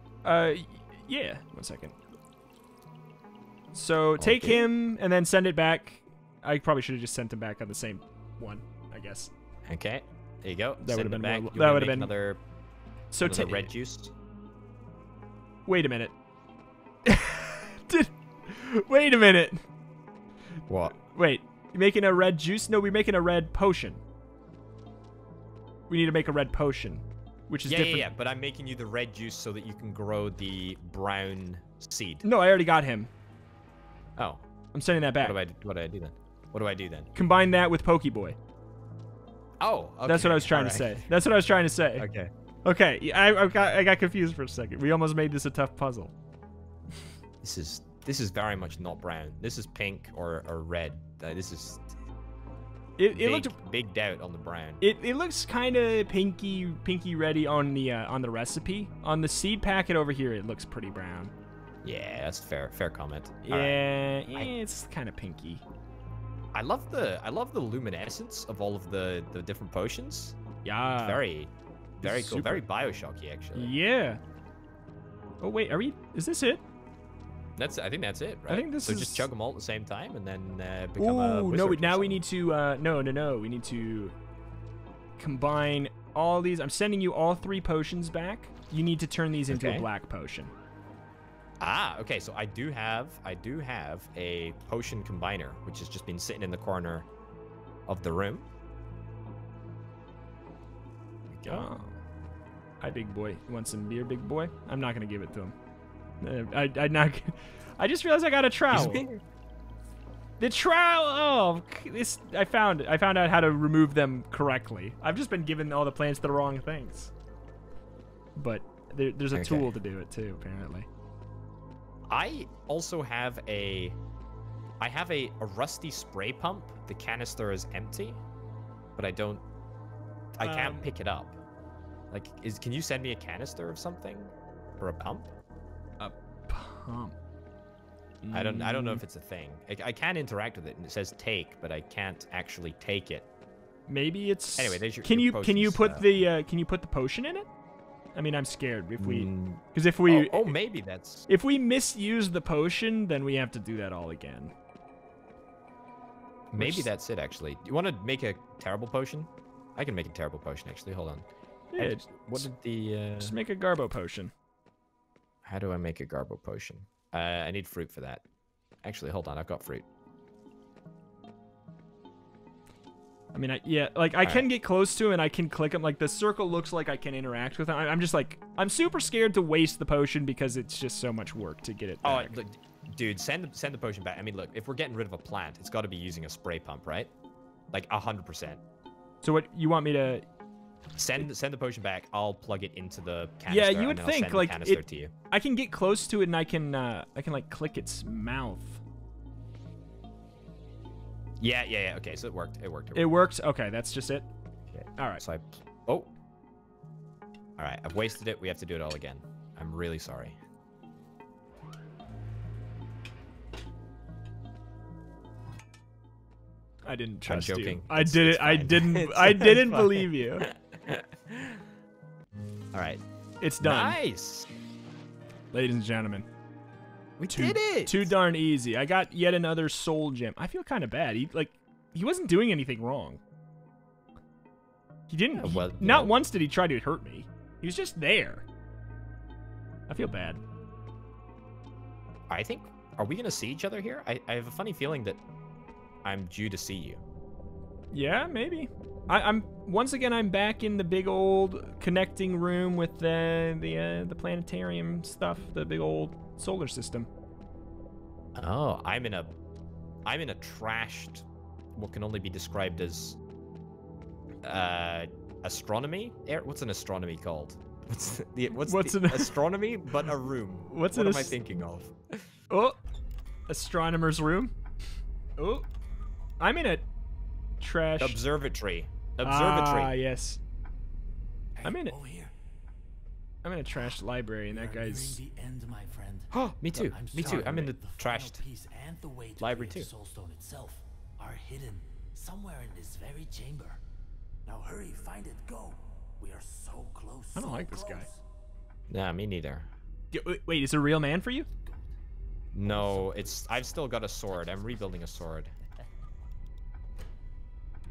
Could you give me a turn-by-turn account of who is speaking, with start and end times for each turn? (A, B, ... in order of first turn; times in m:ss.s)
0:00.2-0:02.0 A
0:03.7-0:09.3 A
0:04.2-0:04.7 B
0:09.7-0:12.4 B
0:10.8-0:12.1 A
0:13.1-0:13.7 A
0:13.2-0:14.1 B
0:15.7-0:16.1 A
0:17.0-0:19.6 A
0:20.7-0:21.0 B
0:20.9-0:24.0 A
0:25.9-0:28.1 A
0:27.7-0:32.3 B
0:32.2-0:33.1 A
0:34.2-0:34.4 B
0:34.7-0:35.4 A
0:35.2-0:37.1 B
0:37.2-0:38.4 A
0:39.6-0:41.0 B
0:40.1-0:42.1 A
0:42.0-0:42.3 B
0:42.6-0:46.1 A
0:47.4-0:51.9 B
0:53.0-0:53.6 A
0:53.1-0:54.8 B
0:54.8-1:01.3 A
1:01.8-1:03.8 B
1:03.4-1:05.6 A
1:06.5-1:10.4 B
1:10.6-1:11.2 A
1:11.0-1:13.8 B
1:12.0-1:12.6 A
1:13.6-1:14.2 A
1:15.4-1:16.6 A
1:17.6-1:22.2 B
1:18.5-1:19.3 A
1:21.0-1:24.2 A
1:25.2-1:30.5 A
1:29.5-1:29.9 B
1:31.6-1:37.1 B
1:37.9-1:38.5 B
1:41.3-1:41.7 B
1:41.5-1:42.0 A
1:42.8-1:45.6 A
1:46.2-1:49.0 A
1:48.7-1:49.2 B
1:50.4-1:57.1 A
1:58.4-2:00.9 A
1:59.3-1:59.8 B
2:02.1-2:04.0 B
2:04.8-2:08.2 B
2:09.0-2:09.4 B
2:10.4-2:11.4 B
2:10.4-2:10.9 A
2:12.1-2:15.3 B
2:16.0-2:17.2 A
2:18.2-2:19.0 A
2:18.3-2:23.3 B
2:23.9-2:27.5 A
2:24.6-2:26.1 B
2:28.1-2:30.6 A
2:29.0-2:31.3 B
2:31.3-2:34.5 A
2:36.5-2:41.3 B
2:36.6-2:36.9 A
2:41.7-2:42.5 A
2:41.8-2:43.4 B
2:43.2-2:44.3 A
2:45.4-2:48.2 B
2:48.8-2:49.9 B
2:53.3-3:02.4 A
3:02.0-3:07.1 B
3:07.7-3:08.6 B
3:09.2-3:10.3 A
3:11.0-3:15.1 B
3:13.5-3:18.8 A
3:21.4-3:23.1 B
3:23.0-3:24.3 A
3:24.7-3:26.1 B
3:27.6-3:30.4 B
3:36.8-3:40.4 A
3:37.3-3:41.6 B
3:42.7-3:43.0 B
3:43.4-3:44.0 A
3:43.6-3:44.5 B
3:45.5-3:46.3 A
3:47.2-3:48.1 B
3:47.3-3:53.2 A
3:55.1-3:58.4 A
3:55.4-3:56.1 B
3:59.9-4:00.4 A
4:02.3-4:05.2 B
4:06.0-4:07.0 B
4:07.9-4:17.1 A
4:18.4-4:19.3 B
4:20.1-4:21.2 B
4:21.8-4:23.2 B
4:24.4-4:32.3 B
4:28.6-4:29.4 A
4:30.7-4:31.4 A
4:32.5-4:32.8 A
4:33.5-4:34.5 A
4:35.4-4:35.7 A
4:36.4-4:36.9 A
4:37.6-4:38.2 A
4:38.0-4:40.0 B
4:39.2-4:40.4 A
4:41.6-4:42.3 C
4:41.6-4:42.0 A
4:43.4-4:45.2 A
4:44.5-4:53.8 C
4:46.3-4:48.4 B
4:47.2-4:47.7 A
4:49.4-4:49.9 B
4:54.5-4:58.2 C
4:57.4-4:58.1 A
4:58.9-4:59.7 B
5:00.1-5:01.5 A
5:02.5-5:05.5 B
5:02.6-5:03.7 C